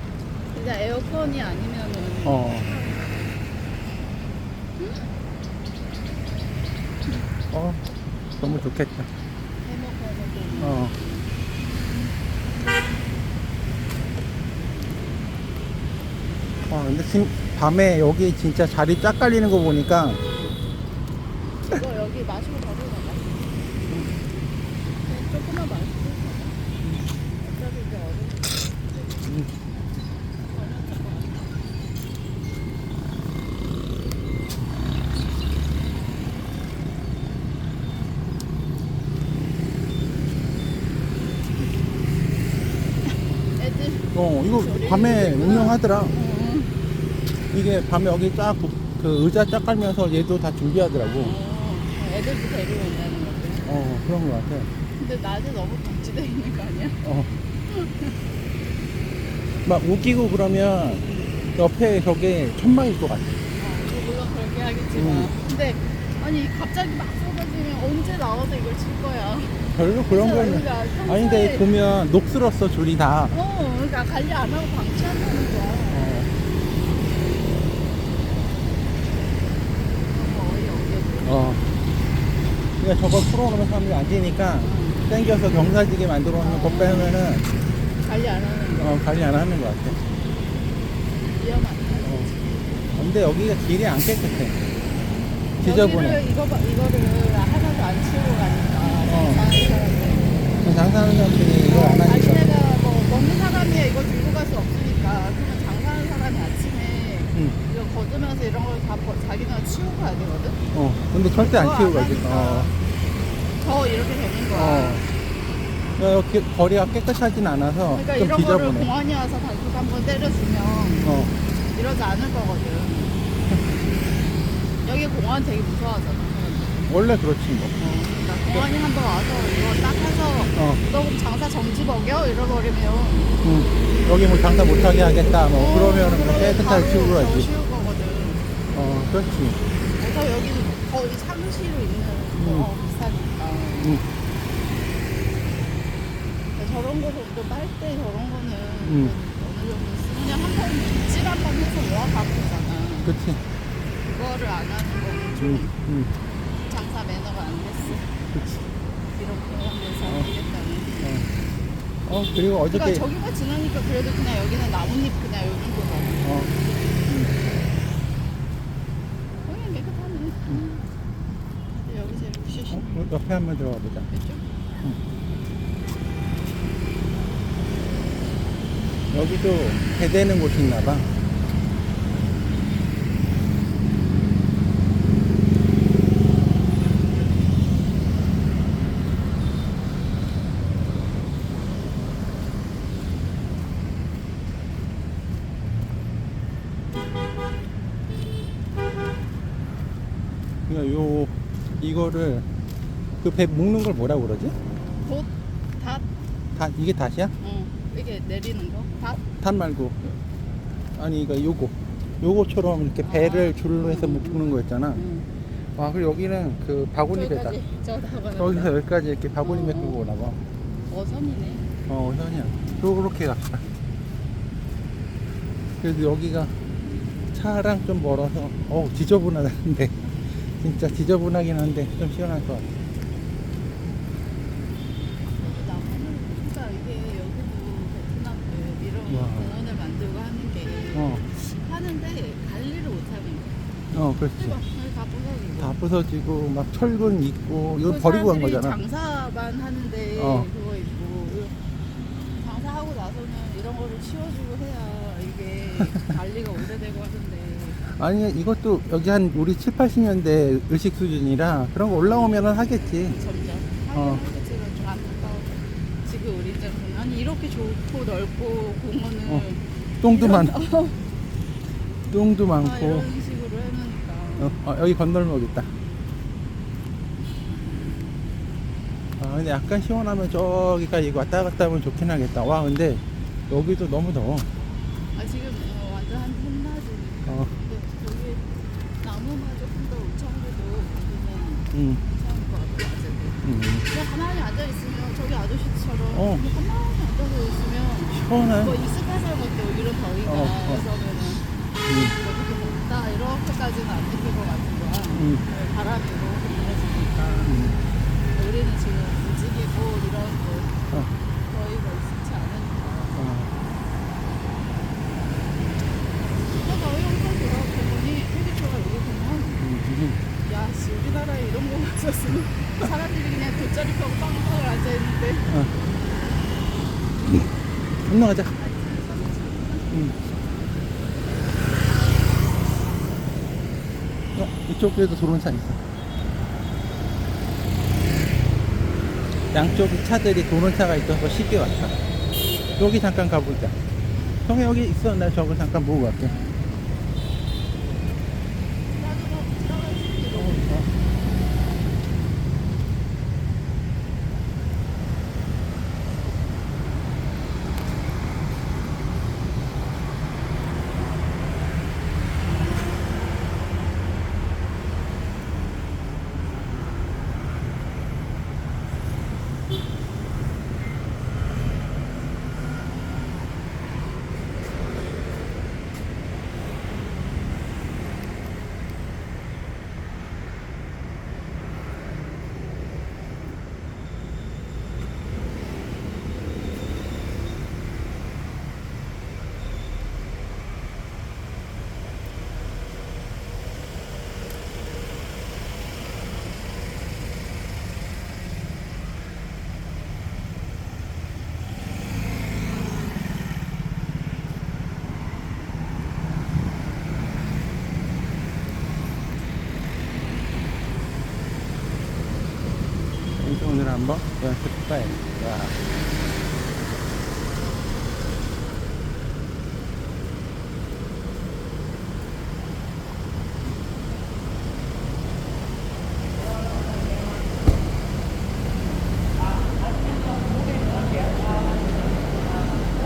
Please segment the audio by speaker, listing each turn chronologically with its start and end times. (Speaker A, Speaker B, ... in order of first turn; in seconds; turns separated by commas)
Speaker A: 0.5-3.2, Speaker B: 2.2-2.7, Speaker A: 4.8-5.1, Speaker B: 7.5-7.8, Speaker B: 8.4-9.1, Speaker A: 9.6-11.3, Speaker B: 10.6-10.9, Speaker B: 16.7-20.2, Speaker A: 21.6-23.6, Speaker A: 25.0-26.6, Speaker A: 27.4-29.3, Speaker A: 30.4-31.6, Speaker A: 43.5-46.7, Speaker B: 44.1-46.1, Speaker B: 47.5-51.4, Speaker A: 51.2-53.6, Speaker B: 53.6-54.7, Speaker A: 55.0-57.0, Speaker B: 57.0-57.3, Speaker A: 57.7-58.2, Speaker B: 59.6-63.4, Speaker A: 61.0-61.3, Speaker A: 63.5-71.7, Speaker B: 64.9-65.3, Speaker B: 69.7-73.3, Speaker A: 73.3-76.1, Speaker B: 75.9-76.3, Speaker A: 80.0-81.4, Speaker B: 81.2-81.6, Speaker B: 82.8-87.4, Speaker A: 84.6-85.0, Speaker A: 86.4-87.1, Speaker A: 88.0-89.0, Speaker B: 88.8-90.0, Speaker A: 91.3-92.9, Speaker B: 92.0-92.3, Speaker B: 92.9-94.6, Speaker B: 95.6-96.2, Speaker A: 95.6-100.6, Speaker B: 99.0-99.4, Speaker B: 100.6-102.5, Speaker A: 101.6-110.6, Speaker B: 110.7-112.7, Speaker A: 111.3-112.8, Speaker A: 113.6-115.0, Speaker B: 114.5-115.0, Speaker B: 116.0-118.9, Speaker A: 117.9-121.2, Speaker B: 121.0-121.3, Speaker A: 121.7-123.2, Speaker A: 124.8-126.9, Speaker B: 126.9-128.7, Speaker A: 128.4-133.4, Speaker B: 130.5-130.8, Speaker B: 133.4-137.5, Speaker A: 135.5-138.5, Speaker B: 138.7-139.6, Speaker A: 139.9-144.0, Speaker B: 142.3-142.7, Speaker A: 146.5-153.1, Speaker B: 148.8-149.1, Speaker B: 153.0-153.4, Speaker A: 154.0-155.7, Speaker B: 155.4-156.1, Speaker A: 156.6-158.1, Speaker B: 158.3-158.6, Speaker A: 159.1-161.0, Speaker B: 161.0-161.3, Speaker B: 162.1-163.0, Speaker A: 162.7-166.3, Speaker B: 166.2-166.5, Speaker B: 167.1-167.3, Speaker A: 169.4-170.8, Speaker A: 171.7-173.0, Speaker B: 172.7-174.1, Speaker A: 174.1-174.4, Speaker B: 179.1-181.1, Speaker B: 200.7-202.4, Speaker B: 203.2-204.6, Speaker A: 205.0-206.0, Speaker B: 206.5-207.3, Speaker A: 207.4-209.2, Speaker B: 209.2-210.2, Speaker B: 210.9-215.0, Speaker A: 213.0-214.4, Speaker A: 214.9-215.3, Speaker B: 215.6-217.6, Speaker A: 217.1-218.7, Speaker B: 218.3-220.4, Speaker A: 219.4-220.0, Speaker A: 220.9-221.7, Speaker B: 221.9-223.7, Speaker B: 225.8-226.5, Speaker B: 227.3-232.7, Speaker A: 235.3-243.7, Speaker B: 239.1-239.5, Speaker B: 240.9-241.2, Speaker B: 243.9-244.6, Speaker A: 244.4-245.7, Speaker B: 245.6-248.8, Speaker A: 247.8-251.5, Speaker B: 250.2-250.5, Speaker A: 252.4-257.8, Speaker B: 257.8-263.2, Speaker A: 261.9-271.0, Speaker B: 263.9-264.2, Speaker B: 270.0-270.6, Speaker B: 272.1-273.1, Speaker A: 272.6-274.6, Speaker B: 274.4-275.7, Speaker A: 277.5-278.2, Speaker B: 279.2-284.5, Speaker A: 285.1-301.5, Speaker B: 291.7-292.0, Speaker B: 293.4-293.9, Speaker B: 296.1-296.4, Speaker B: 298.1-298.7, Speaker B: 300.2-300.8, Speaker B: 301.9-302.1, Speaker A: 302.0-307.6, Speaker B: 305.1-305.4, Speaker B: 307.4-307.8, Speaker A: 308.3-310.8, Speaker A: 311.5-313.2, Speaker B: 313.1-313.5, Speaker A: 316.5-319.6, Speaker B: 319.6-320.2, Speaker A: 320.4-325.5, Speaker B: 325.5-325.7, Speaker B: 328.1-328.5, Speaker A: 328.5-330.6, Speaker B: 329.9-330.1, Speaker B: 334.3-335.8, Speaker B: 339.5-342.0, Speaker B: 342.8-343.7, Speaker A: 344.1-344.4, Speaker B: 344.4-346.3, Speaker A: 346.2-346.6, Speaker A: 348.9-350.9, Speaker B: 350.4-350.9, Speaker B: 413.4-415.8, Speaker A: 430.1-432.0